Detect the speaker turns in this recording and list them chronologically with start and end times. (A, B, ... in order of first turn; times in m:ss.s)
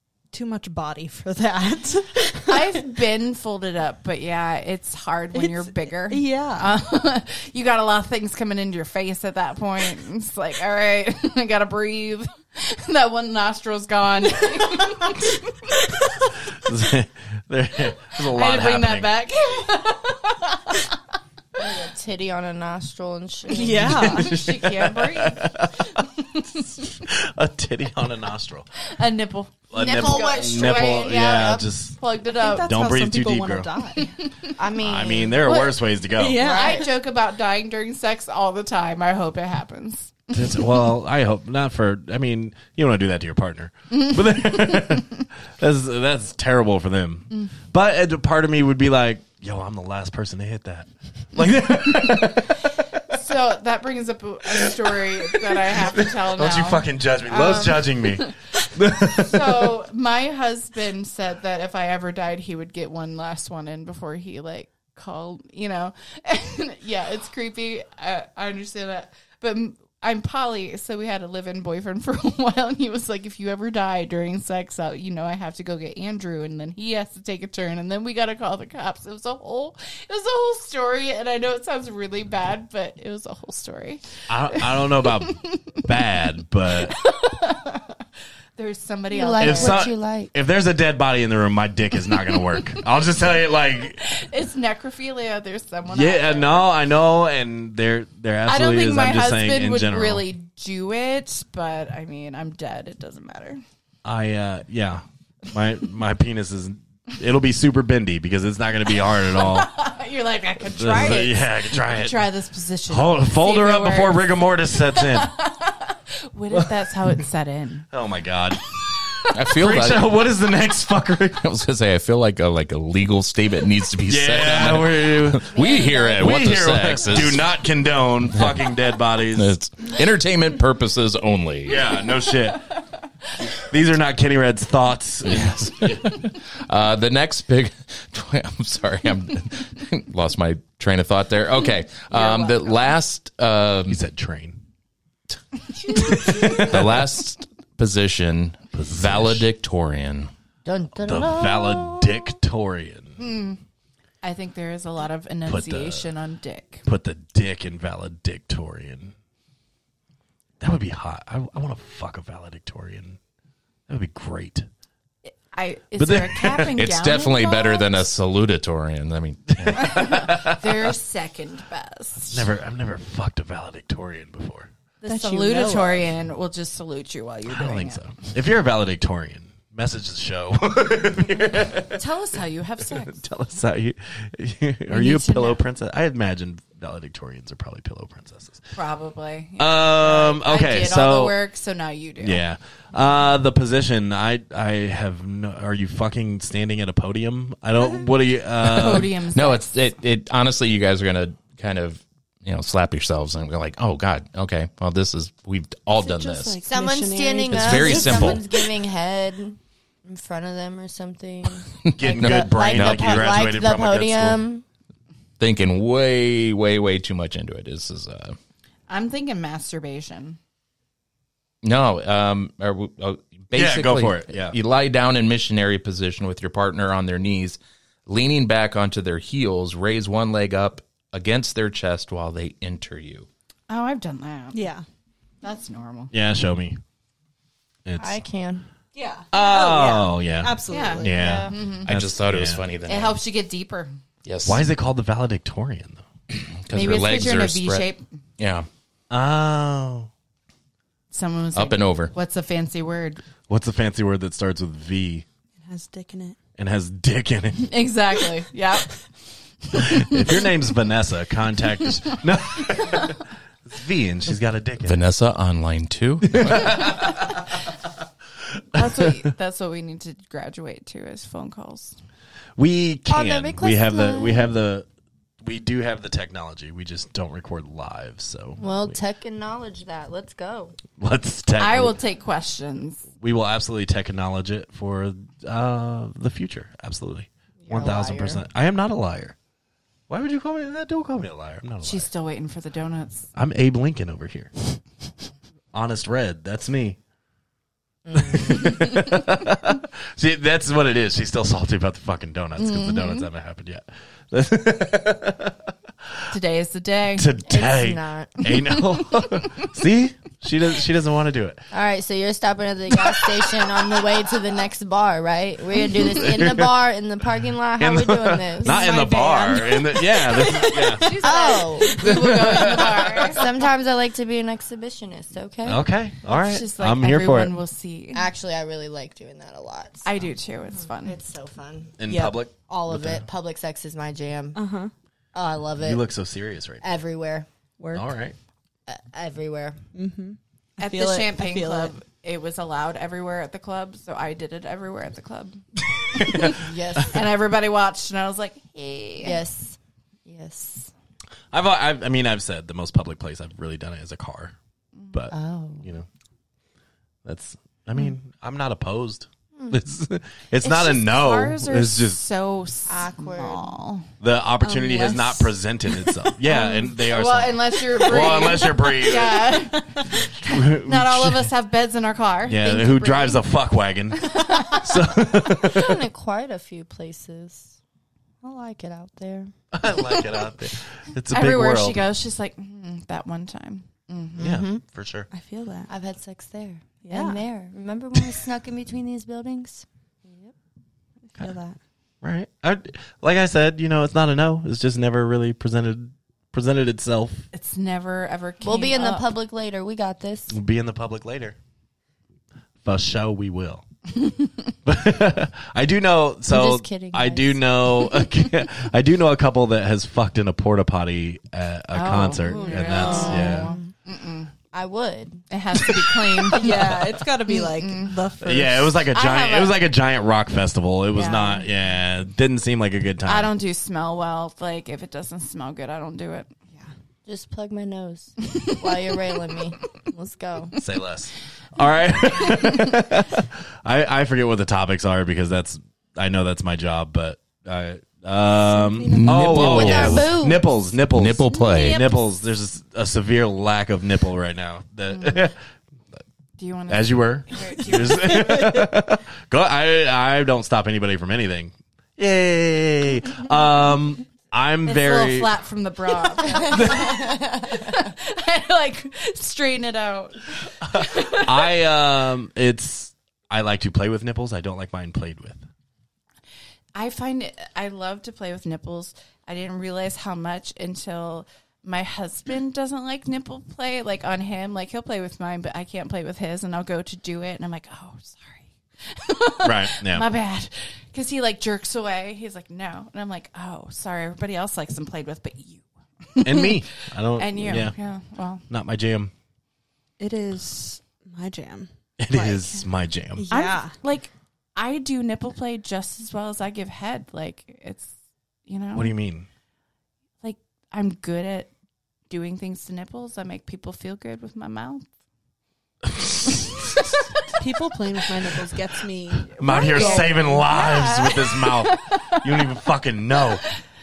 0:00.3-0:02.8 A
0:02.5-0:15.9 B
0:05.3-0:06.8 A
0:16.6-0:19.1 C
0:18.3-0:21.0 B
0:21.6-0:24.0 D
0:23.5-0:24.3 A
0:23.7-0:26.0 C
0:23.9-0:26.9 B
0:26.9-0:28.7 C
0:28.8-0:32.7 B
0:29.7-0:32.0 C
0:29.7-0:31.7 D
0:32.4-0:34.2 A
0:32.6-0:33.7 C
0:34.0-0:34.6 B
0:34.6-0:35.6 D
0:34.8-0:36.4 C
0:35.4-0:35.8 B
0:36.2-0:36.8 A
0:36.3-0:40.6 B
0:36.3-0:36.8 D
0:40.3-0:53.2 C
0:53.1-0:58.3 B
0:54.5-0:59.8 C
0:59.0-1:25.7 B
1:24.3-1:27.0 C
1:26.8-1:28.0 B
1:28.6-1:29.9 B
1:29.1-1:30.3 D
1:29.4-1:34.2 C
1:33.8-1:36.7 B
1:35.9-1:40.3 C
1:38.5-1:43.6 B
1:44.0-1:49.7 C
1:49.3-1:57.9 B
1:50.8-1:52.3 C
1:52.9-1:55.4 C
1:57.9-1:58.8 C
1:59.3-2:00.1 E
1:59.5-2:01.4 C
2:01.4-2:07.5 E
2:04.1-2:05.5 C
2:05.5-2:06.3 D
2:06.2-2:09.5 C
2:08.3-2:08.7 E
2:09.3-2:12.0 E
2:11.7-2:12.7 C
2:13.5-2:16.0 C
2:15.2-2:24.0 E
2:22.1-2:22.8 B
2:23.9-2:24.6 C
2:25.9-2:27.0 C
2:26.5-2:30.3 E
2:28.7-2:29.4 C
2:30.6-2:32.4 D
2:31.0-2:33.2 C
2:33.2-2:33.6 B
2:34.2-2:36.8 B
2:35.5-2:36.1 C
2:36.8-2:39.1 C
2:40.6-2:43.2 C
2:43.9-2:44.7 C
2:45.2-2:48.1 B
2:46.0-2:46.8 C
2:46.8-2:50.2 E
2:49.6-2:50.9 C
2:49.8-2:52.5 B
2:52.3-2:54.7 C
2:55.0-2:56.1 A
2:55.0-2:58.0 B
2:57.5-3:02.0 C
3:01.9-3:03.2 B
3:03.0-3:08.6 C
3:04.9-3:05.6 B
3:08.7-3:12.4 B
3:09.6-3:11.4 C
3:12.2-3:19.1 C
3:18.6-3:20.0 B
3:18.7-3:26.6 E
3:25.9-3:28.5 A
3:26.6-3:34.6 D
3:27.5-3:28.4 E
3:31.8-3:33.3 E
3:32.0-3:34.4 C
3:35.4-3:38.4 E
3:38.9-3:40.4 B
3:41.6-3:53.3 E
3:43.5-3:44.6 C
3:53.7-3:54.7 B
3:54.5-3:54.8 A
3:55.4-3:56.1 B
3:56.1-3:56.8 C
3:57.8-3:58.2 C
3:58.0-3:58.7 D
3:59.0-4:01.4 A
3:59.3-4:02.6 C
4:00.7-4:01.9 B
4:01.0-4:01.6 D
4:01.8-4:03.2 E
4:02.9-4:03.9 B
4:04.2-4:04.6 E
4:04.5-4:06.0 C
4:06.6-4:07.9 E
4:06.7-4:08.1 B
4:08.4-4:08.7 E
4:09.1-4:10.1 C
4:11.1-4:13.2 B
4:11.6-4:12.1 E
4:13.5-4:15.3 C
4:15.6-4:16.4 A
4:16.6-4:17.7 C
4:17.6-4:19.0 B
4:19.7-4:25.0 C
4:19.7-4:20.2 B
4:24.8-4:27.0 E
4:26.3-4:27.4 C
4:28.7-4:32.0 B
4:32.6-4:34.9 C
4:33.1-4:34.5 D
4:35.4-4:38.9 C
4:38.6-4:40.8 D
4:41.0-4:42.0 C
4:41.6-4:43.1 B
4:43.2-4:49.4 C
4:47.6-4:48.4 D
4:50.1-4:52.1 C
4:51.8-4:53.3 B
4:53.4-4:54.5 C
4:55.7-4:57.0 C
4:58.1-4:58.8 D
4:58.2-5:05.7 C
5:02.6-5:03.3 B
5:06.3-5:07.3 B
5:07.2-5:11.6 C
5:07.5-5:08.3 D
5:08.5-5:08.8 B
5:11.7-5:19.0 D
5:15.8-5:16.8 C
5:17.8-5:21.1 C
5:18.6-5:19.8 B
5:19.6-5:21.1 A
5:20.6-5:23.4 B
5:21.2-5:22.1 D
5:22.0-5:23.4 C
5:22.0-5:22.8 A
5:23.2-5:25.8 D
5:25.6-5:27.6 C
5:26.2-5:28.3 B
5:28.1-5:30.1 D
5:30.0-5:31.2 B
5:30.8-5:32.0 D
5:32.0-5:33.3 C
5:32.1-5:32.4 A
5:32.6-5:34.6 D
5:34.6-5:34.9 A
5:35.3-5:36.0 D
5:35.8-5:36.8 C
5:36.8-5:37.5 D
5:37.8-5:38.1 A
5:37.9-5:38.4 C
5:38.9-5:39.8 D
5:39.9-5:42.0 A
5:40.8-5:45.6 B
5:46.0-5:47.1 C
5:46.1-5:49.4 B
5:46.5-5:47.2 D
5:49.2-5:50.9 D
5:51.5-5:54.6 C
5:55.1-5:56.1 C
5:55.3-5:55.9 D
5:57.2-6:02.2 C
6:00.6-6:04.1 B
6:02.9-6:03.7 D
6:04.2-6:09.5 C
6:04.6-6:06.8 A
6:06.9-6:13.4 B
6:09.8-6:10.0 A
6:10.2-6:11.5 C
6:12.5-6:16.0 C
6:14.2-6:14.9 B
6:15.5-6:17.8 D
6:18.4-6:19.5 D
6:19.7-6:22.0 C
6:20.0-6:20.4 B
6:21.3-6:24.6 B
6:24.4-6:24.8 D
6:24.4-6:25.3 C
6:25.3-6:25.9 A
6:25.9-6:30.5 D
6:27.0-6:27.4 A
6:31.3-6:31.8 A
6:32.2-6:37.5 C
6:37.5-6:39.3 B
6:38.6-6:40.6 D
6:40.5-6:41.6 C
6:42.8-6:43.8 C
6:44.8-6:53.8 C
6:46.5-6:48.0 D
6:51.9-6:54.5 B
6:52.5-6:53.6 A
6:53.0-6:53.9 D
6:54.7-6:55.4 D
6:55.5-6:58.2 B
6:56.5-6:59.0 A
6:58.4-7:03.5 C
6:59.1-6:59.8 B
7:01.1-7:01.7 B
7:03.2-7:06.6 B
7:07.3-7:10.8 D
7:08.5-7:09.0 B
7:10.8-7:25.6 C
7:18.6-7:19.9 A
7:19.2-7:20.4 E
7:19.6-7:20.7 D
7:21.1-7:22.0 E
7:21.5-7:22.2 B
7:25.1-7:25.5 B
7:26.6-7:28.6 B
7:26.9-7:35.5 C
7:28.4-7:28.8 A
7:34.9-7:41.8 B
7:36.6-7:37.3 C
7:40.8-7:45.6 C
7:47.0-8:06.8 B
7:59.6-8:00.3 C
8:06.4-8:08.0 C
8:07.3-8:08.6 B
8:08.7-8:09.3 C
8:10.2-8:12.6 A
8:12.2-8:13.5 C
8:12.4-8:12.8 B
8:13.4-8:14.0 A
8:13.5-8:18.1 B
8:18.7-8:19.1 B
8:18.9-8:19.5 C
8:20.4-8:21.7 B
8:22.3-8:25.1 B
8:26.2-8:26.4 C
8:26.9-8:27.2 B
8:27.6-8:30.4 A
8:29.5-8:33.6 C
8:29.6-8:32.7 B